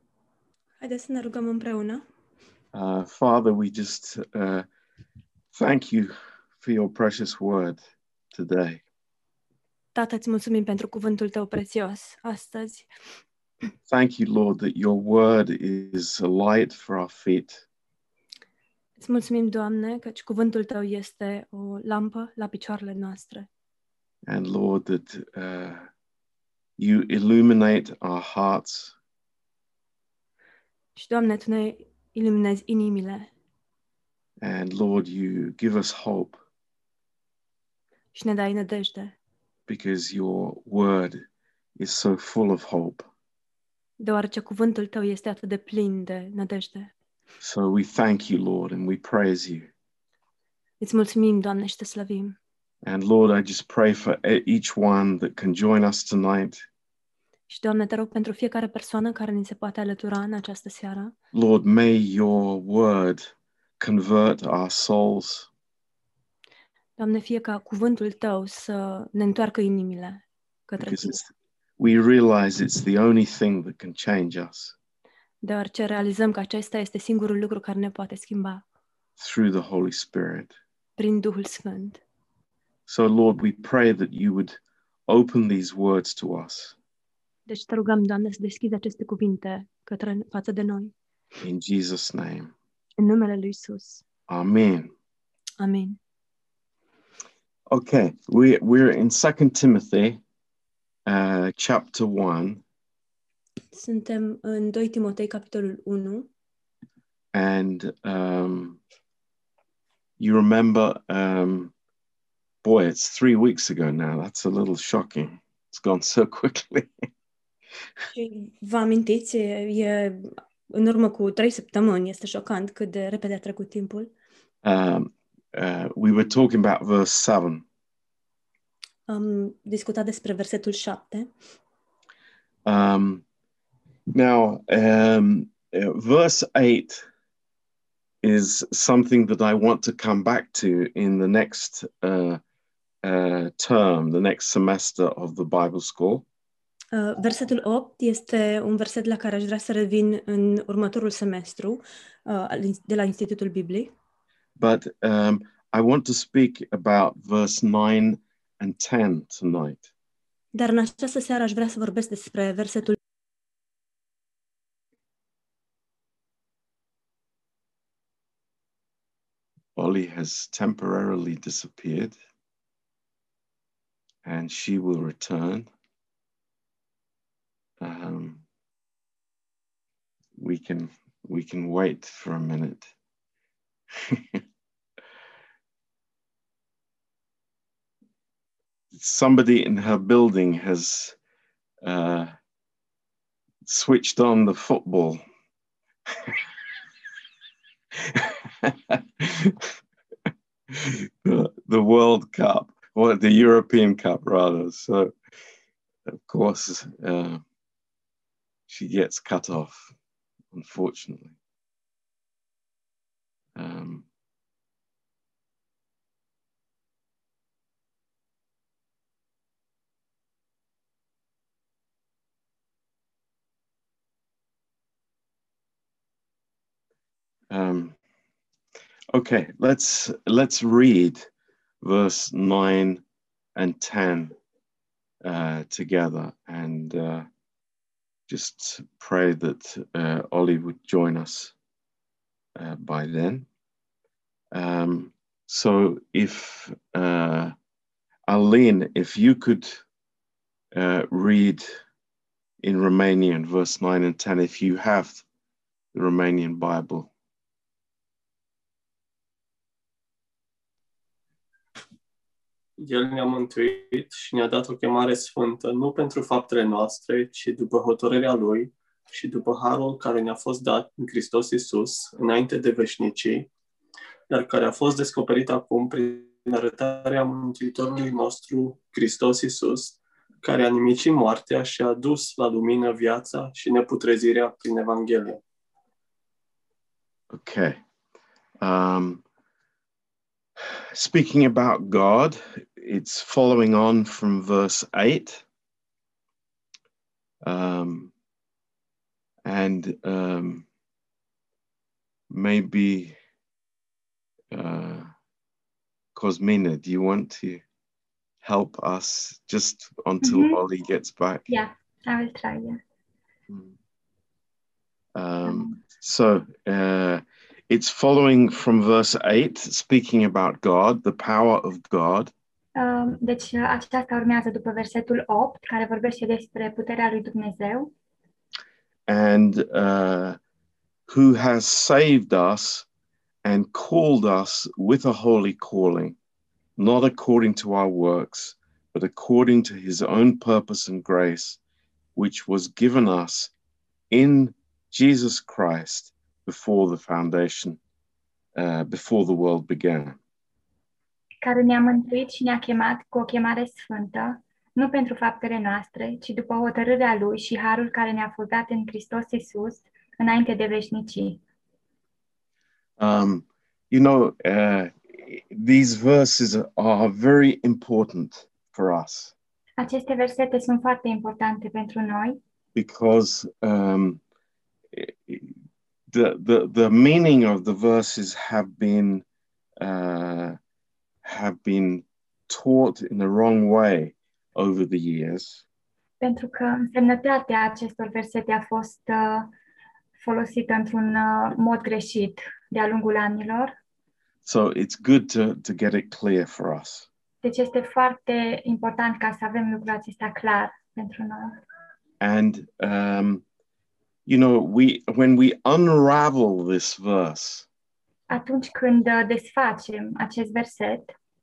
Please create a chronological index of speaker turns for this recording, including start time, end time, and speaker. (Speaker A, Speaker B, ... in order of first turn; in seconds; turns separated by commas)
Speaker A: 0.8-2.0, Speaker B: 2.7-4.7, Speaker B: 5.5-7.8, Speaker B: 8.3-8.8, Speaker A: 9.9-12.9, Speaker B: 13.9-17.6, Speaker A: 19.0-23.5, Speaker B: 24.2-25.9, Speaker B: 26.8-28.9, Speaker A: 30.9-33.3, Speaker B: 34.4-36.4, Speaker A: 38.1-39.1, Speaker B: 39.7-41.2, Speaker B: 41.8-43.1, Speaker A: 44.0-46.9, Speaker B: 47.4-49.7, Speaker A: 50.8-52.4, Speaker B: 52.8-56.6, Speaker A: 57.5-61.1, Speaker B: 61.3-65.5, Speaker A: 67.0-71.2, Speaker B: 70.8-74.8, Speaker A: 75.4-78.6, Speaker B: 79.2-80.5, Speaker A: 81.0-82.0, Speaker B: 82.9-86.8, Speaker A: 87.5-90.9, Speaker B: 91.4-92.5, Speaker A: 93.0-94.0, Speaker B: 94.3-94.9, Speaker A: 95.6-96.0, Speaker B: 97.7-100.2, Speaker B: 101.0-102.6, Speaker A: 103.7-106.3, Speaker B: 107.3-108.8, Speaker B: 110.2-111.7, Speaker B: 112.6-116.9, Speaker A: 118.1-124.1, Speaker B: 124.6-127.6, Speaker A: 129.1-131.3, Speaker B: 132.6-133.2, Speaker B: 134.1-137.1, Speaker B: 138.2-142.4, Speaker B: 143.0-146.2, Speaker A: 146.9-153.9, Speaker B: 154.6-159.9, Speaker A: 160.5-162.9, Speaker B: 169.7-172.2, Speaker B: 174.2-175.7, Speaker B: 177.8-178.4, Speaker B: 180.4-182.9, Speaker B: 184.0-184.4, Speaker B: 188.9-191.2, Speaker B: 191.8-192.3, Speaker B: 193.6-195.2, Speaker B: 196.1-196.4, Speaker B: 198.0-199.7, Speaker B: 200.7-205.1, Speaker B: 206.1-207.4, Speaker B: 208.7-209.9, Speaker B: 210.5-211.3, Speaker B: 213.6-214.1, Speaker B: 227.5-227.9, Speaker B: 229.1-231.3, Speaker B: 231.8-233.0, Speaker B: 233.5-234.3, Speaker B: 235.2-237.3, Speaker B: 238.3-241.5, Speaker B: 242.5-243.5, Speaker B: 244.5-247.5, Speaker B: 248.3-249.8, Speaker B: 250.7-251.7, Speaker B: 252.6-255.2, Speaker B: 255.9-257.1, Speaker C: 262.8-273.5, Speaker C: 274.3-285.4, Speaker B: 287.3-287.8, Speaker B: 288.6-289.2, Speaker B: 290.9-295.4, Speaker B: 297.4-298.1, Speaker B: 299.4-300.6, Speaker B: 302.3-303.1, Speaker B: 304.5-305.1, Speaker B: 306.1-307.6, Speaker B: 308.4-311.5, Speaker D: 310.2-310.6, Speaker D: 311.5-312.8, Speaker B: 315.1-322.3, Speaker D: 315.5-315.8, Speaker D: 322.8-327.9, Speaker B: 329.1-330.4, Speaker B: 331.1-332.9, Speaker B: 333.4-336.1, Speaker B: 336.8-341.6, Speaker B: 342.1-343.5, Speaker B: 344.1-347.8, Speaker B: 348.5-350.2, Speaker D: 351.4-361.4, Speaker B: 363.0-369.3, Speaker D: 369.8-372.4, Speaker B: 372.7-374.2, Speaker B: 374.9-375.5, Speaker B: 376.1-379.2, Speaker B: 379.8-380.6, Speaker B: 381.2-385.6, Speaker D: 386.2-389.5, Speaker D: 390.2-393.7, Speaker B: 394.4-397.1, Speaker D: 397.4-401.6, Speaker B: 402.2-403.4, Speaker B: 404.2-407.7, Speaker D: 408.3-411.1